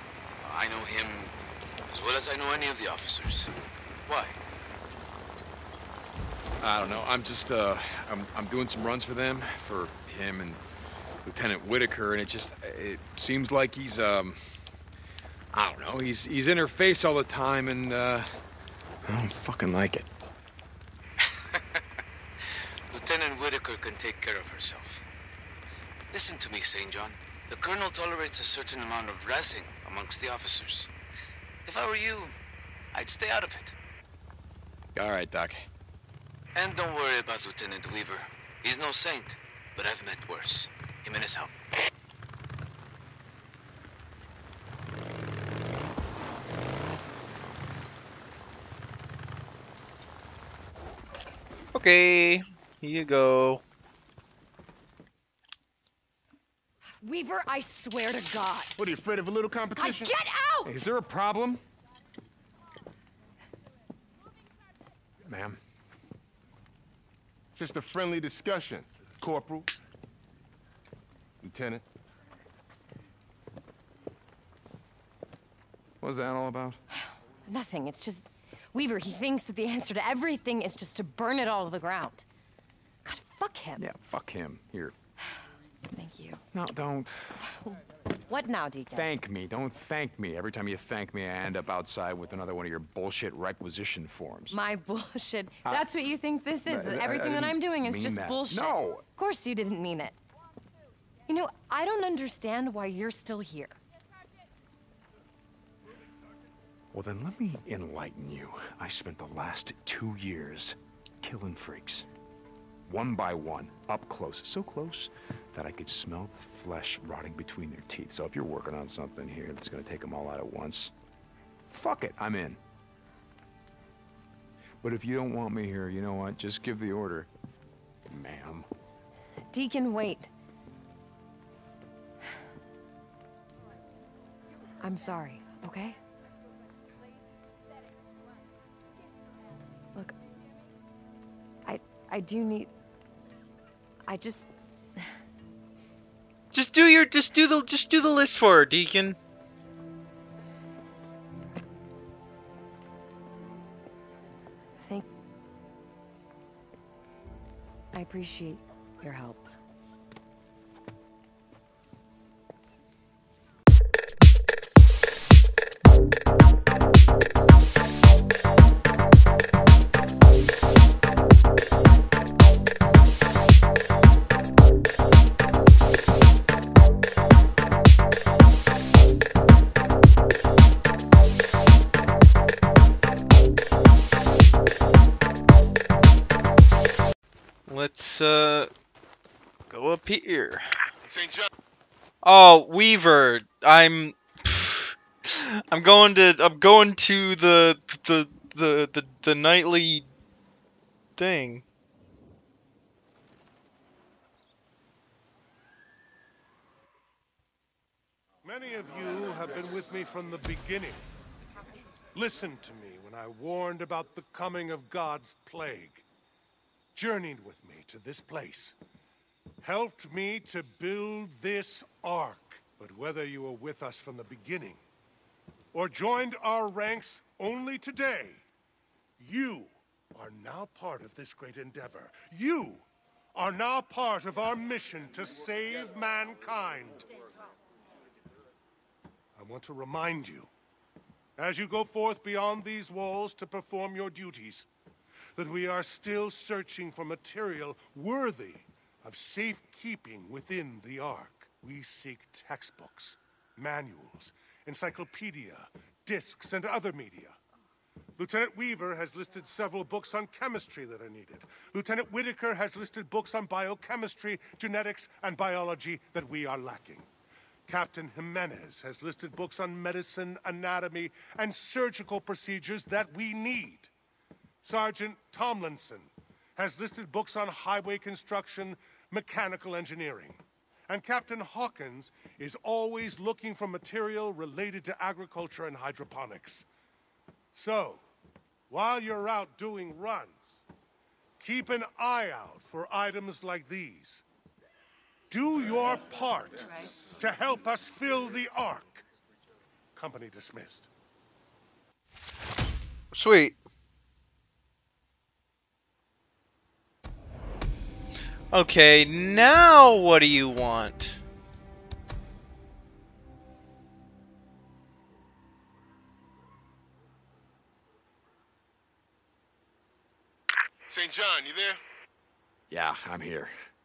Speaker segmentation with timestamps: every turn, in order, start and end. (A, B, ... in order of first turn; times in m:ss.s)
0:00.4-0:01.4 A
0:01.9-0:03.5 A
0:04.1-0:04.4 A
0:06.6-0:10.6 B
0:11.2-0:14.4 B
0:15.5-0:18.4 B
0:19.0-0:20.1 B
0:22.9-0:25.1 A
0:26.1-0:30.9 A
0:31.7-0:32.4 A
0:32.9-0:33.8 A
0:35.0-0:35.7 B
0:36.5-0:41.5 A
0:51.7-0:53.6 C
0:57.0-0:58.8 D
0:58.8-1:00.1 E
0:59.8-1:00.8 D
1:00.6-1:01.6 B
1:05.2-1:05.6 B
1:07.6-1:09.7 E
1:11.4-1:11.8 E
1:16.0-1:16.8 B
1:17.5-1:22.3 D
1:23.1-1:23.9 D
1:23.8-1:25.0 B
1:25.9-1:26.4 D
1:26.5-1:27.5 B
1:28.3-1:29.1 D
1:28.9-1:34.6 B
1:34.5-1:40.2 D
1:36.7-1:39.1 B
1:41.3-1:43.8 D
1:46.9-1:52.1 B
1:52.9-2:00.9 B
2:01.7-2:02.6 B
2:04.8-2:07.3 B
2:08.1-2:08.7 B
2:09.5-2:10.3 D
2:14.8-2:16.0 D
2:21.7-2:22.7 D
2:24.1-2:24.5 D
2:26.5-2:29.2 C
2:37.9-2:39.5 D
3:07.7-3:08.7 C
3:09.7-3:10.6 C
3:11.1-3:11.5 E
3:12.2-3:20.1 C
3:21.2-3:21.6 C
3:28.4-3:31.0 F
3:32.2-3:36.0 F
3:37.0-3:38.8 F
3:39.6-3:44.8 F
3:45.7-3:48.4 F
3:49.2-3:57.1 F
3:59.4-4:00.5 F
4:01.4-4:04.7 F
4:05.4-4:17.4 F
4:18.2-4:27.1 F
4:27.7-4:33.9 F
4:34.6-4:46.7 F
4:47.5-4:48.0 F
4:48.7-4:50.6 F
4:51.4-4:54.2 F
4:55.3-4:59.0 F
5:00.0-5:00.9 F
5:03.1-5:03.6 C
5:08.5-5:11.2 C
5:20.9-5:21.8 E
5:22.7-5:23.6 B